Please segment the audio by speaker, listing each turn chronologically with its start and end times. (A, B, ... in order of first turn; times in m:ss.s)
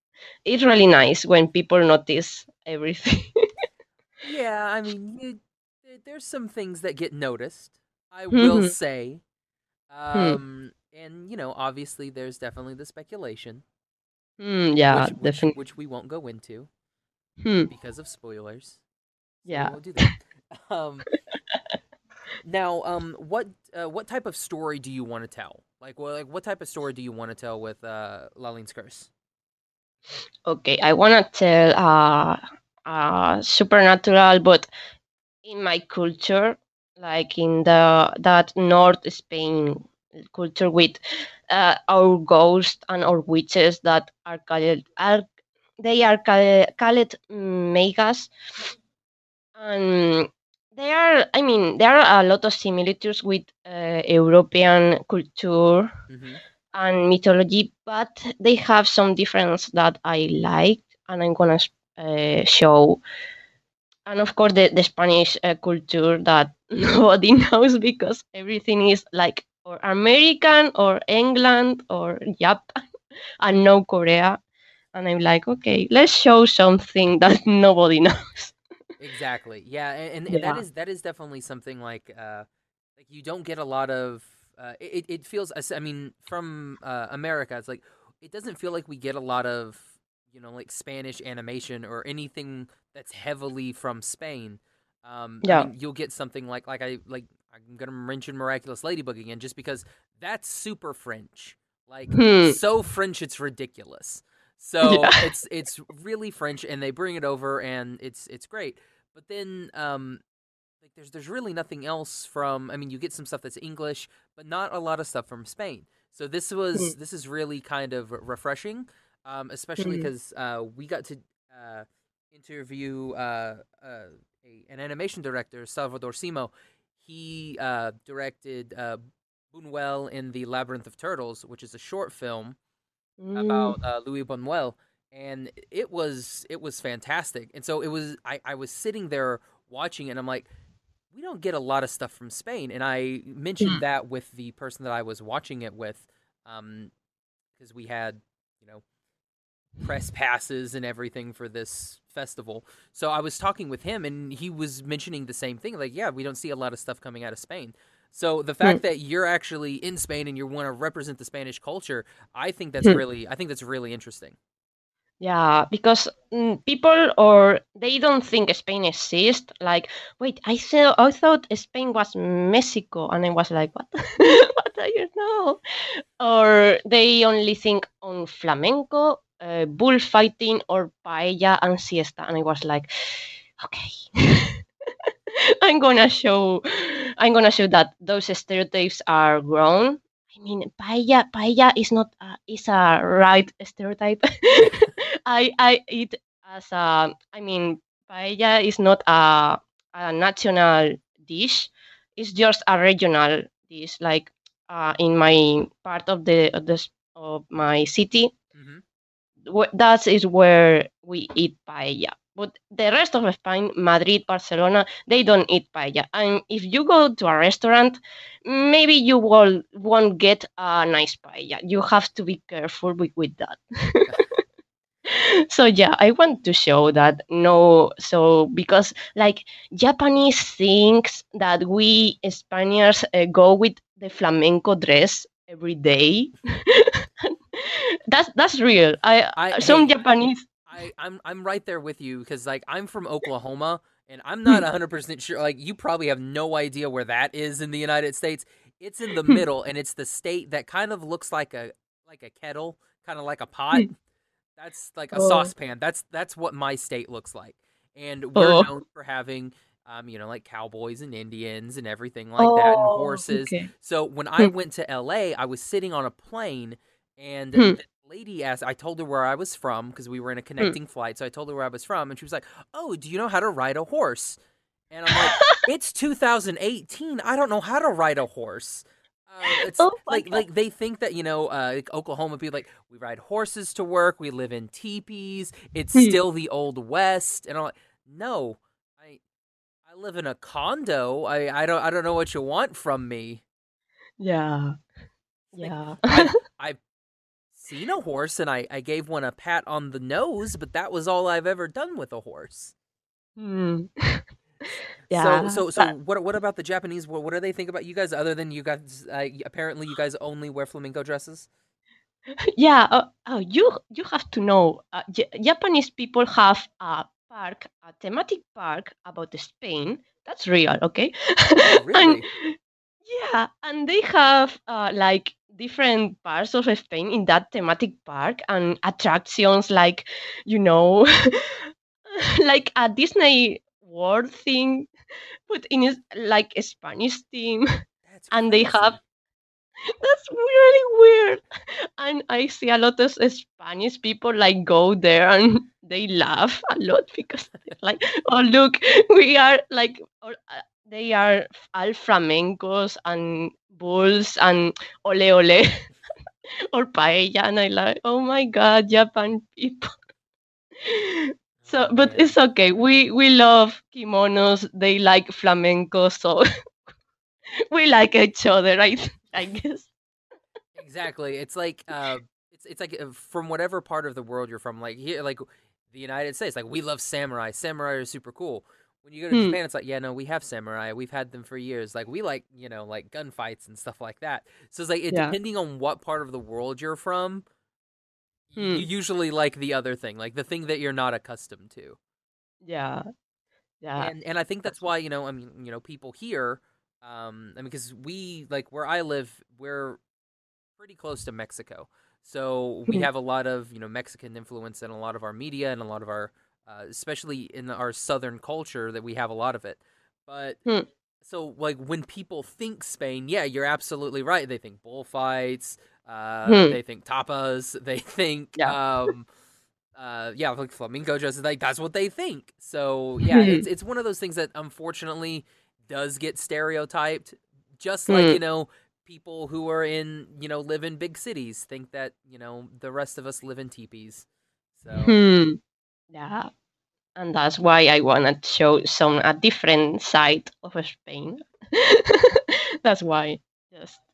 0:00.5-0:03.3 A
0:04.2-0:09.2 B
0:08.3-0:08.7 A
0:09.9-0:13.6 B
0:10.1-0:10.4 A
0:14.4-0:15.6 A
0:14.9-0:16.7 B
0:17.4-0:17.7 A
0:17.7-0:18.8 B
0:19.4-0:21.1 B
0:19.5-0:20.1 A
0:22.4-0:29.1 B
0:30.5-0:34.7 A
0:35.4-0:41.0 A
0:41.5-0:45.2 A
0:45.8-0:48.7 A
0:49.6-0:55.9 A
0:56.1-0:56.4 B
0:56.7-1:03.0 A
1:04.1-1:12.7 A
1:13.4-1:14.4 A
1:15.0-1:18.6 A
1:19.0-1:22.5 B
1:20.3-1:20.6 A
1:23.0-1:50.2 B
1:42.1-1:42.6 A
1:44.8-1:45.2 A
1:50.8-2:09.0 B
1:59.8-2:00.1 A
2:09.5-2:12.6 B
2:13.2-2:13.8 A
2:13.4-2:20.5 B
2:21.1-2:26.9 B
2:27.6-2:28.8 B
2:29.8-2:44.4 B
2:45.2-2:55.6 A
2:56.2-3:04.6 A
3:05.6-3:28.3 A
3:28.6-3:28.8 B
3:29.5-3:44.1 A
3:45.1-4:00.5 A
3:59.4-4:00.0 B
4:00.7-4:13.9 B
4:14.6-4:34.4 B
4:15.1-4:15.5 A
4:18.4-4:18.7 A
4:22.4-4:23.7 A
4:34.9-4:49.2 B
4:35.1-4:35.6 A
4:39.5-4:40.4 A
4:49.8-4:53.4 B
4:54.2-4:54.8 A
4:55.6-4:56.8 B
4:55.6-4:56.2 A
4:57.5-5:02.7 B
5:03.4-5:04.2 A
5:05.1-5:05.9 A
5:05.1-5:11.5 B
5:12.6-5:22.5 A
5:21.6-5:22.3 B
5:23.1-5:34.9 A
5:35.5-5:37.7 A
5:38.1-5:39.0 B
5:38.3-5:39.0 A
5:39.9-5:41.4 A
5:42.0-5:55.8 A
5:56.7-5:59.9 A
6:00.8-6:06.4 A
6:01.6-6:02.3 B
6:07.7-6:09.9 A
6:10.8-6:27.4 B
6:19.3-6:19.6 A
6:28.5-6:32.0 B
6:28.6-6:28.8 A
6:32.6-6:33.0 A
6:33.8-6:34.1 A
6:34.0-6:40.0 B
6:40.8-6:50.6 B
6:51.2-6:59.3 B
6:56.5-6:56.8 A
7:00.0-7:15.2 B
7:03.3-7:03.6 A
7:08.1-7:08.4 A
7:15.0-7:15.6 A
7:16.1-7:16.5 A
7:17.2-7:24.0 A